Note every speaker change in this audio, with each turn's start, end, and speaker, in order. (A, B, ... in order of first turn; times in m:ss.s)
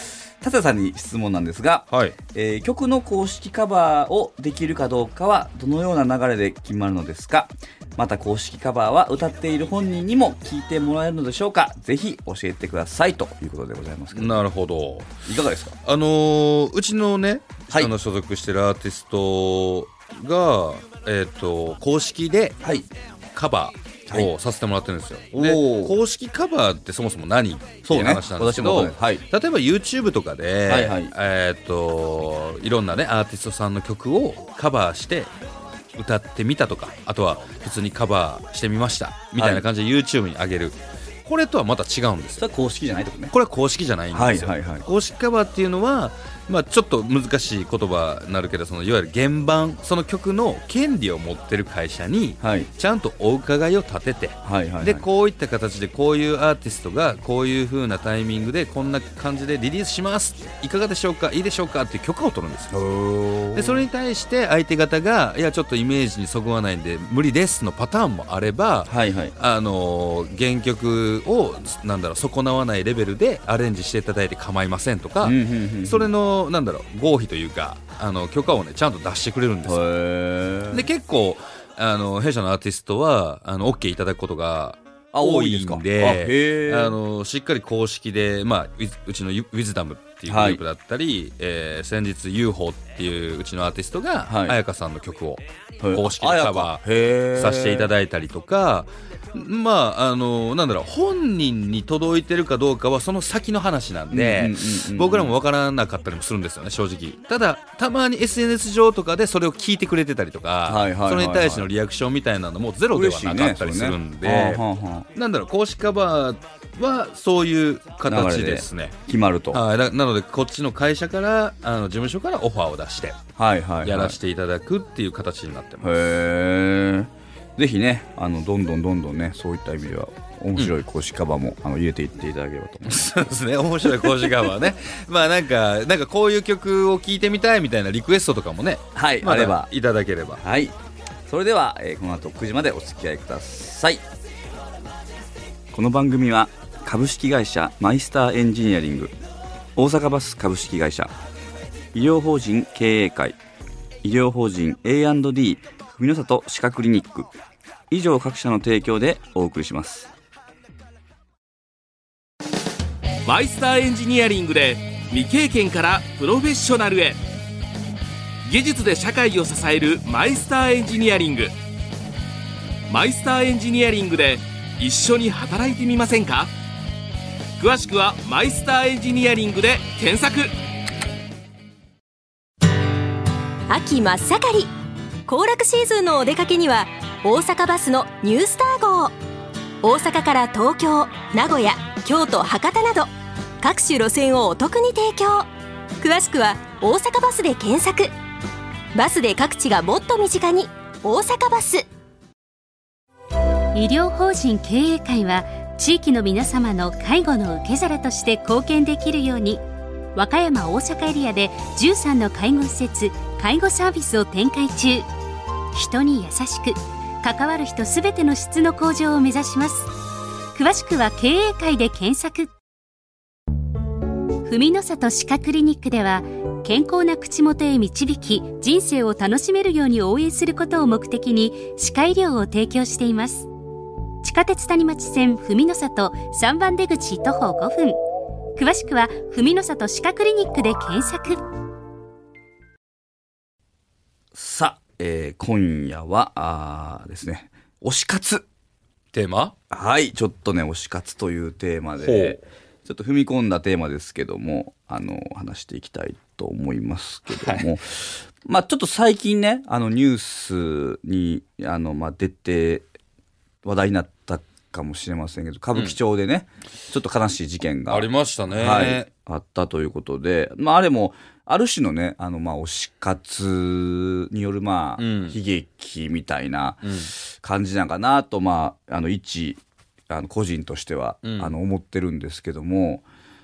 0:00.4-0:14.4 A
0:01.9-0:02.2 B
0:14.1-0:15.1 B
0:15.2-0:15.8 A
0:15.8-0:22.6 B
0:23.3-0:35.3 B
0:25.3-0:26.0 A
0:27.8-0:29.2 A
0:30.7-0:31.1 A
0:36.0-0:42.5 B
0:39.4-0:39.6 A
0:42.4-0:43.3 A
0:43.3-1:02.8 B
0:44.1-0:44.8 A
0:52.4-0:52.7 A
0:54.4-0:55.0 A
1:02.7-1:03.9 A
1:03.5-1:19.8 B
1:08.9-1:09.3 A
1:15.2-1:16.1 A
1:19.7-1:20.9 A
1:20.7-1:54.6 B
1:25.1-1:27.0 A
1:30.3-1:30.6 A
1:34.3-1:34.6 A
1:35.8-1:37.9 A
1:44.1-1:45.4 A
1:50.7-1:51.7 A
1:52.9-1:55.1 A
1:55.2-1:59.0 B
1:58.1-1:59.6 A
1:59.5-2:03.2 B
2:03.4-2:04.2 A
2:03.8-2:05.9 B
2:05.8-2:13.2 A
2:12.9-2:20.4 B
2:13.9-2:14.4 A
2:18.9-2:19.7 A
2:20.4-2:20.7 A
2:21.3-2:24.0 A
2:25.7-2:29.1 A
2:29.8-2:31.1 A
2:31.9-2:33.4 A
2:34.0-2:37.3 A
2:37.9-2:40.1 A
2:43.2-2:47.2 C
2:48.4-2:51.5 C
2:52.9-2:56.5 C
2:57.6-3:00.5 C
3:03.7-3:04.7 D
3:05.3-3:09.2 D
3:09.8-3:15.5 D
3:16.0-3:18.1 D
3:19.0-3:21.9 D
3:23.7-3:29.6 E
3:30.2-3:35.1 E
3:35.7-3:39.9 E
3:40.5-3:42.5 E
3:44.4-3:53.5 E
3:54.2-3:58.0 E
3:58.6-4:01.4 E
4:04.3-4:08.4 A
4:09.1-4:09.6 B
4:09.7-4:22.8 A
4:12.0-4:12.4 B
4:17.3-4:17.7 B
4:23.6-4:43.0 A
4:27.9-4:29.1 B
4:35.0-4:35.4 B
4:36.8-4:37.1 B
4:41.2-4:41.6 B